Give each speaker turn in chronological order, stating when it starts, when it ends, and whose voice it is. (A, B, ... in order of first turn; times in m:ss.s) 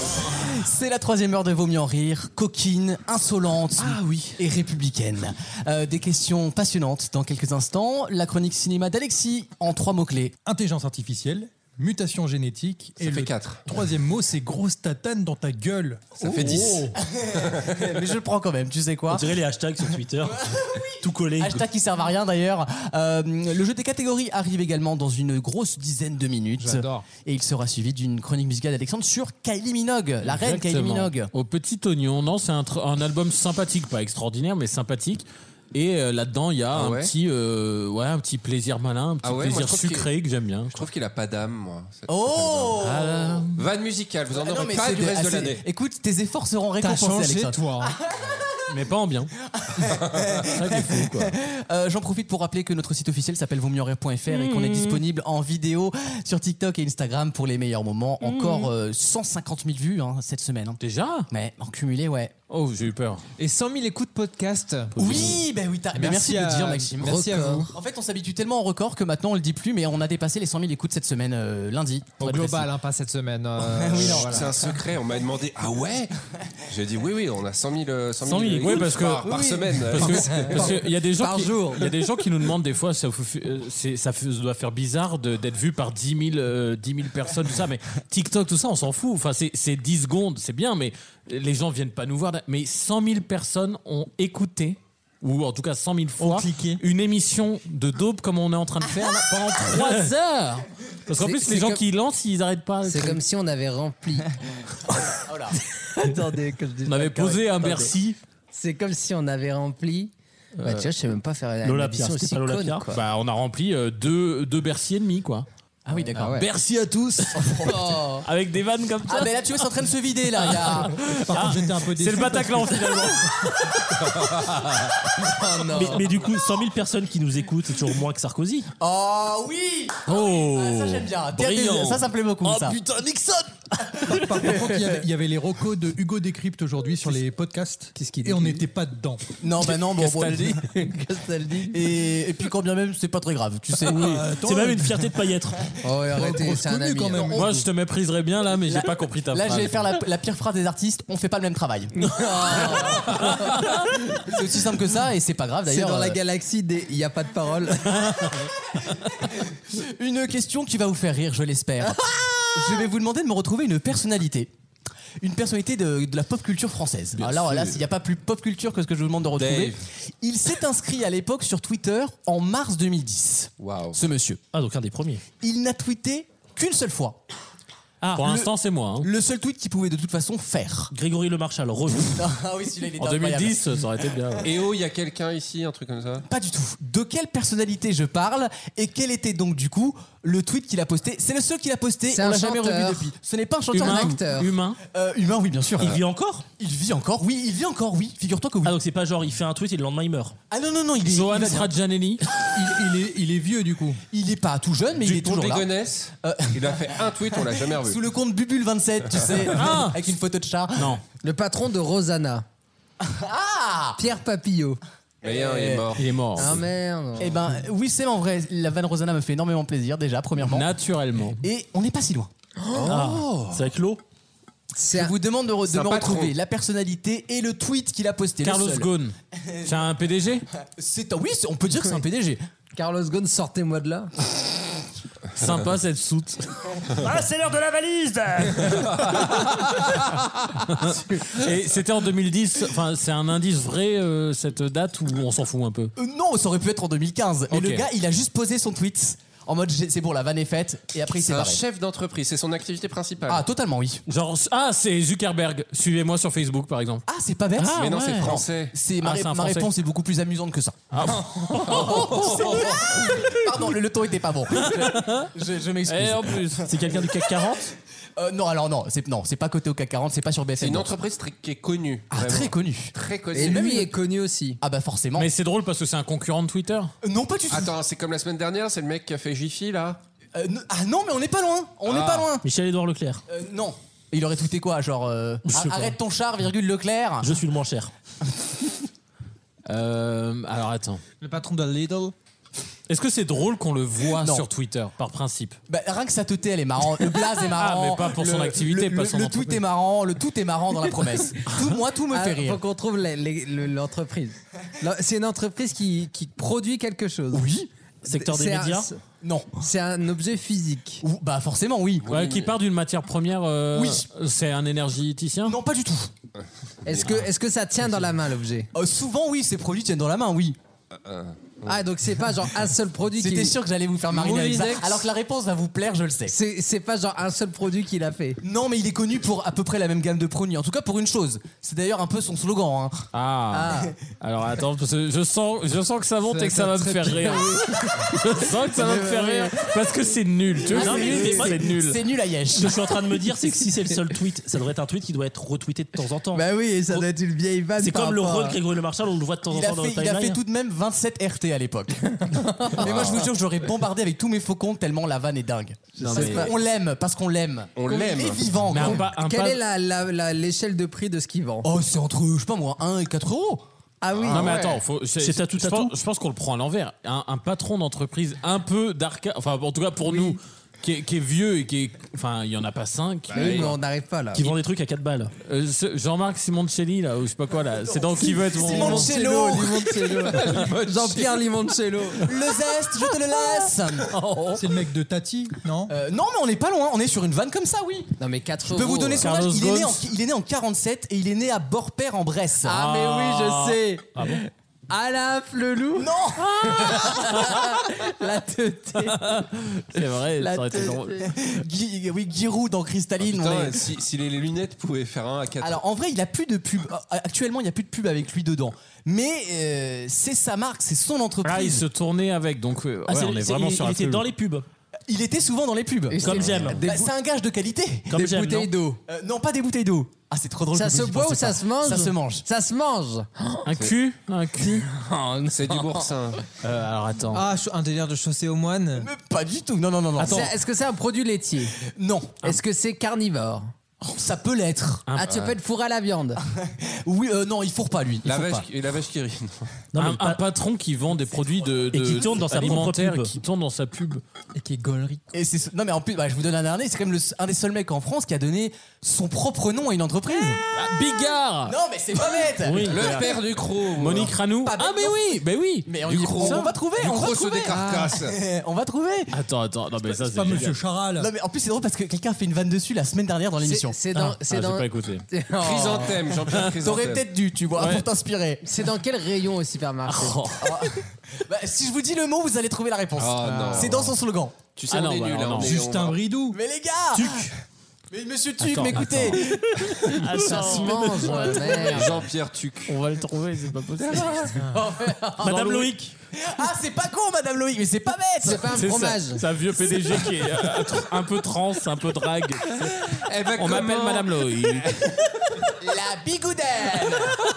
0:00.4-0:10.4 A
0:03.8-0:04.4 B
0:10.4-0:16.6 C
0:13.0-0:13.6 D
0:16.2-0:18.0 D
0:16.2-0:19.3 A
0:19.1-0:21.6 E
0:20.3-0:31.3 A
0:26.6-0:27.1 F
0:30.2-0:40.8 B
0:36.7-0:37.1 D
0:39.2-0:40.1 D
0:40.7-0:42.9 D
0:42.1-0:43.4 A
0:42.8-0:43.6 B
0:43.5-0:45.6 D
0:44.3-0:48.0 A
0:46.8-0:47.9 F
0:48.7-0:49.3 B
0:49.6-1:02.3 A
0:50.5-0:51.3 B
0:54.4-0:54.9 G
0:58.2-0:58.7 G
1:00.8-1:01.3 B
1:02.5-1:03.2 B
1:03.4-1:05.2 F
1:04.9-1:05.4 B
1:05.0-1:12.2 A
1:05.9-1:07.7 F
1:07.0-1:07.7 G
1:12.2-1:14.6 F
1:12.2-1:12.6 B
1:13.8-1:14.7 A
1:13.8-1:16.1 D
1:16.7-1:20.7 D
1:18.2-1:18.9 E
1:18.6-1:19.3 B
1:19.3-1:19.6 A
1:19.3-1:19.8 G
1:19.8-1:43.2 B
1:21.2-1:22.0 G
1:36.2-1:36.8 F
1:41.1-1:41.8 G
1:42.8-1:44.3 G
1:45.2-1:45.6 A
1:45.9-1:47.9 G
1:46.8-1:48.2 B
1:48.5-1:53.0 G
1:51.6-1:52.8 E
1:52.9-1:55.5 B
1:55.8-1:56.5 A
1:56.2-1:59.3 B
1:57.3-1:58.2 A
1:57.6-1:58.2 G
1:59.1-2:01.1 A
2:00.4-2:03.6 B
2:01.2-2:03.1 C
2:05.2-2:06.1 G
2:05.7-2:08.7 E
2:08.8-2:12.8 A
2:10.1-2:13.3 B
2:14.0-2:19.2 C
2:14.1-2:15.0 A
2:18.0-2:18.6 G
2:19.4-2:20.7 A
2:19.7-2:20.7 B
2:20.7-2:21.9 G
2:21.7-2:24.2 A
2:23.9-2:25.1 C
2:23.9-2:25.7 E
2:25.8-2:27.4 G
2:26.1-2:27.6 C
2:27.3-2:29.9 B
2:28.6-2:31.9 A
2:32.0-2:33.8 G
2:32.5-2:33.0 A
2:32.7-2:33.6 B
2:34.1-2:36.2 A
2:35.6-2:38.3 G
2:39.2-2:44.5 A
2:41.8-2:42.8 G
2:45.2-2:54.4 A
2:47.2-2:47.8 B
2:49.4-2:49.8 D
2:53.6-2:54.0 D
2:54.5-2:55.2 E
2:55.4-2:57.2 A
2:58.1-2:59.1 B
2:58.2-3:00.9 A
3:00.9-3:02.2 E
3:02.1-3:03.7 A
3:03.0-3:04.5 B
3:04.4-3:06.2 D
3:06.2-3:14.2 A
3:12.1-3:13.1 G
3:13.7-3:14.8 B
3:13.7-3:14.5 G
3:14.8-3:15.9 A
3:15.8-3:16.4 E
3:16.6-3:18.7 A
3:18.6-3:20.4 E
3:20.5-3:21.7 A
3:21.0-3:22.2 B
3:22.5-3:24.0 C
3:24.1-3:25.7 A
3:25.0-3:28.0 D
3:26.2-3:31.0 A
3:29.5-3:30.0 B
3:30.7-3:31.0 B
3:31.2-3:32.4 G
3:33.0-3:34.0 A
3:34.0-3:34.8 G
3:35.2-3:36.0 A
3:35.2-3:36.1 D
3:36.0-3:36.5 B
3:36.4-3:37.5 G
3:37.2-3:40.7 A
3:40.4-3:41.4 B
3:41.4-3:42.3 A
3:42.6-3:43.0 G
3:42.7-3:43.6 D
3:42.9-3:44.0 E
3:44.7-3:45.2 G
3:44.9-3:49.7 A
3:45.7-3:46.3 D
3:48.4-3:50.4 B
3:50.6-3:52.4 A
3:52.7-3:54.1 G
3:55.3-3:56.8 B
3:57.0-3:59.0 E
3:59.3-4:00.0 B
4:00.6-4:05.9 B
4:06.0-4:11.6 A
4:07.5-4:07.8 B
4:11.2-4:13.4 D
4:13.3-4:14.0 A
4:14.1-4:17.0 B
4:17.1-4:20.8 A
4:17.6-4:18.2 E
4:17.7-4:18.7 D
4:19.0-4:19.7 B
4:20.9-4:22.3 B
4:21.5-4:27.1 A
4:21.5-4:23.2 D
4:24.6-4:25.3 B
4:25.8-4:26.7 B
4:26.6-4:27.7 E
4:28.2-4:31.0 A
4:30.6-4:33.8 D
4:32.1-4:33.9 A
4:33.3-4:34.6 G
4:34.6-4:35.3 A
4:35.2-4:36.9 B
4:37.0-4:37.8 A
4:37.5-4:40.0 D
4:40.3-4:42.4 A
4:41.8-4:42.3 D
4:42.4-4:43.2 E
4:43.3-4:47.3 A
4:45.5-4:46.0 E
4:47.2-4:47.9 E
4:49.7-4:51.0 B
4:51.2-4:52.1 F
4:52.9-4:55.6 B
4:54.2-4:54.5 A
4:55.7-5:02.6 A
4:57.4-4:59.6 B
5:02.1-5:07.5 G
5:07.3-5:07.7 A
5:08.0-5:08.9 E
5:08.0-5:09.0 G
5:09.2-5:09.6 A
5:09.6-5:11.0 G
5:11.0-5:12.1 A
5:12.0-5:12.5 D
5:12.1-5:15.6 B
5:13.7-5:14.0 A
5:15.4-5:16.1 A
5:16.8-5:18.7 G
5:18.7-5:20.6 A
5:20.9-5:21.8 D
5:21.6-5:25.1 G
5:23.2-5:26.3 A
5:26.2-5:28.4 G
5:28.4-5:33.1 A
5:33.1-5:42.0 B
5:33.5-5:33.9 G
5:36.4-5:37.4 F
5:36.6-5:39.7 G
5:40.7-5:43.0 A
5:40.7-5:41.6 E
5:40.9-5:41.2 G
5:42.5-5:46.4 E
5:46.3-5:48.6 G
5:47.8-5:50.4 E
5:49.5-5:59.1 A
5:52.2-5:53.1 G
5:52.8-5:53.3 D
5:56.0-5:56.5 B
5:56.0-5:56.5 G
5:57.8-5:58.9 D
5:58.7-5:59.6 B
5:58.9-6:01.7 G
6:01.6-6:03.6 A
6:04.0-6:04.7 G
6:04.2-6:04.6 D
6:04.3-6:13.8 B
6:05.2-6:05.9 E
6:10.0-6:10.4 G
6:13.3-6:13.7 D
6:13.3-6:14.5 G
6:14.3-6:15.3 E
6:15.4-6:19.1 B
6:18.2-6:22.3 G
6:18.3-6:20.3 A
6:20.3-6:21.4 D
6:22.2-6:24.1 A
6:23.4-6:24.6 G
6:24.5-6:25.9 C
6:25.9-6:28.1 A
6:28.2-6:29.4 G
6:28.6-6:32.8 A
6:29.2-6:30.1 B
6:32.6-6:41.3 G
6:32.7-6:34.4 B
6:36.0-6:37.3 A
6:36.9-6:37.6 B
6:39.1-6:41.2 B
6:41.2-6:43.9 A
6:43.2-6:45.8 D
6:45.6-6:51.8 A
6:51.4-6:54.3 B
6:53.1-6:54.6 E
6:55.1-6:58.3 A
6:56.1-6:57.1 G
6:56.2-6:56.8 E
6:56.4-6:56.7 B
6:58.1-6:58.7 E
6:58.2-6:59.0 G
6:59.0-7:02.4 A
7:00.7-7:03.8 G
7:03.6-7:04.8 B
7:04.6-7:06.1 G
7:05.5-7:06.4 D
7:06.6-7:07.4 B
7:07.3-7:09.1 F
7:09.0-7:10.5 A
7:10.2-7:11.7 G
7:11.9-7:12.4 A
7:12.4-7:13.7 G
7:14.0-7:15.1 A
7:15.1-7:15.5 B
7:15.2-7:16.4 G
7:16.5-7:18.6 A
7:18.2-7:19.7 D
7:19.9-7:20.4 E
7:20.0-7:24.2 B
7:21.9-7:23.3 E
7:24.6-7:25.2 G
7:25.3-7:30.6 A
7:30.7-7:31.8 B
7:31.7-7:33.2 A
7:32.6-7:36.7 B
7:32.8-7:34.4 D
7:34.2-7:35.3 A
7:35.8-7:39.3 A
7:36.0-7:38.4 D
7:39.3-7:40.8 B
7:40.1-7:41.3 C
7:41.2-7:44.0 A
7:43.6-7:46.3 G
7:44.1-7:45.2 B
7:45.6-7:47.3 D
7:46.8-7:48.6 A
7:47.8-7:48.0 B
7:48.6-7:50.5 G
7:50.0-7:50.7 B
7:50.6-7:54.6 A
7:53.2-7:54.2 D
7:53.4-7:53.9 F
7:54.7-7:56.2 D
7:54.9-7:55.8 B
7:55.6-7:56.6 C
7:56.5-8:00.0 A
7:57.1-7:57.5 B
7:58.6-7:59.4 B
8:00.0-8:02.2 B
8:00.4-8:02.3 G
8:01.7-8:03.0 D
8:02.8-8:04.6 B
8:04.6-8:05.3 G
8:04.7-8:08.8 A
8:05.4-8:06.0 B
8:05.5-8:06.1 E
8:08.4-8:09.4 G
8:08.7-8:12.9 B
8:13.0-8:14.8 D
8:13.5-8:15.0 B
8:15.8-8:17.4 A